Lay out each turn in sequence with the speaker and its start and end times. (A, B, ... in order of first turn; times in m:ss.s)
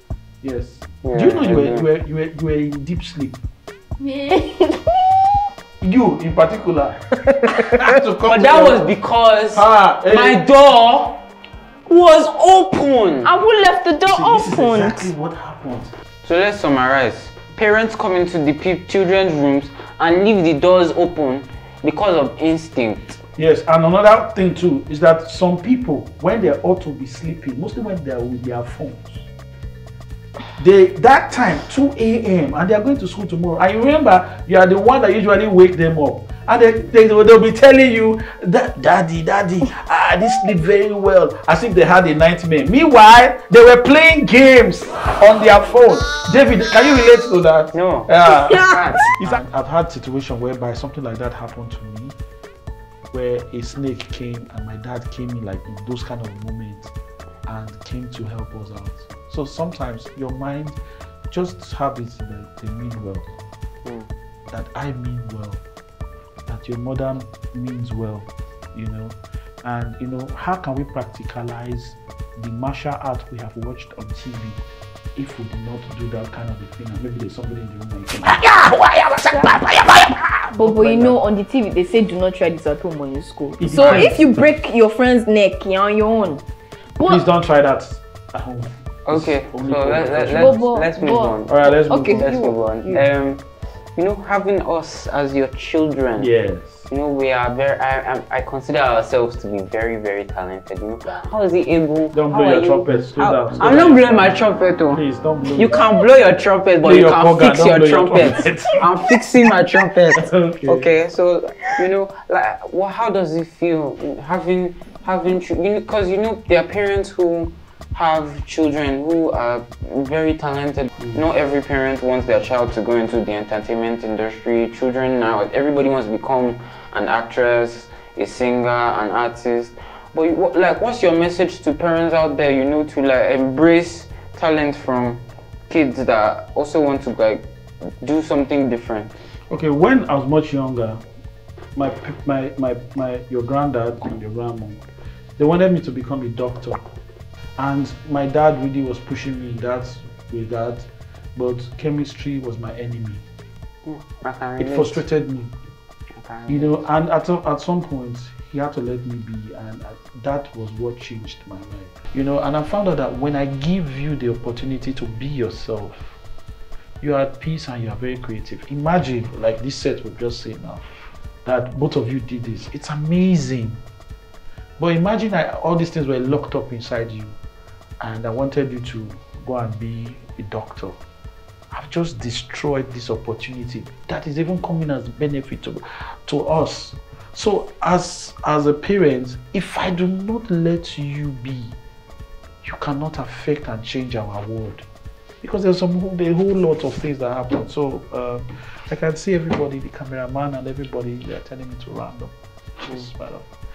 0:00.4-0:03.4 A
0:01.0-0:01.9 B
0:04.0-0:05.1 C
0:05.8-0:08.8 A
0:08.3-0:11.2 B
0:09.5-0:10.4 A
0:11.9-0:13.3 B
0:13.2-0:15.1 C
0:14.1-0:15.9 A
0:16.2-0:23.2 B
0:23.4-0:29.3 A
0:30.6-0:52.2 A
0:47.7-0:49.2 B
0:53.1-0:56.9 A
0:57.5-1:00.8 A
1:01.3-1:03.2 A
1:04.5-1:05.6 A
1:06.5-1:14.6 A
1:15.2-1:21.2 A
1:20.5-1:26.4 C
1:23.6-1:24.2 A
1:23.8-1:24.2 B
1:27.0-1:27.2 C
1:27.0-1:30.6 A
1:29.1-1:33.4 B
1:30.3-1:33.0 C
1:31.4-1:33.0 A
1:34.0-1:36.3 B
1:36.2-1:36.9 A
1:36.9-1:45.0 B
1:42.1-1:45.8 A
1:45.6-2:17.5 B
1:46.8-1:48.9 A
1:50.2-1:50.9 A
2:18.0-2:19.1 B
2:19.5-2:21.0 A
2:21.8-2:24.8 A
2:25.4-2:26.8 A
2:27.6-2:33.2 A
2:33.8-2:35.0 B
2:34.6-2:35.5 A
2:36.2-2:36.8 B
2:36.5-2:46.2 A
2:47.0-2:50.9 A
2:51.4-2:53.8 A
2:54.8-2:57.4 A
2:58.0-3:01.0 A
3:01.7-3:11.8 A
3:12.6-3:14.8 A
3:15.4-3:23.5 A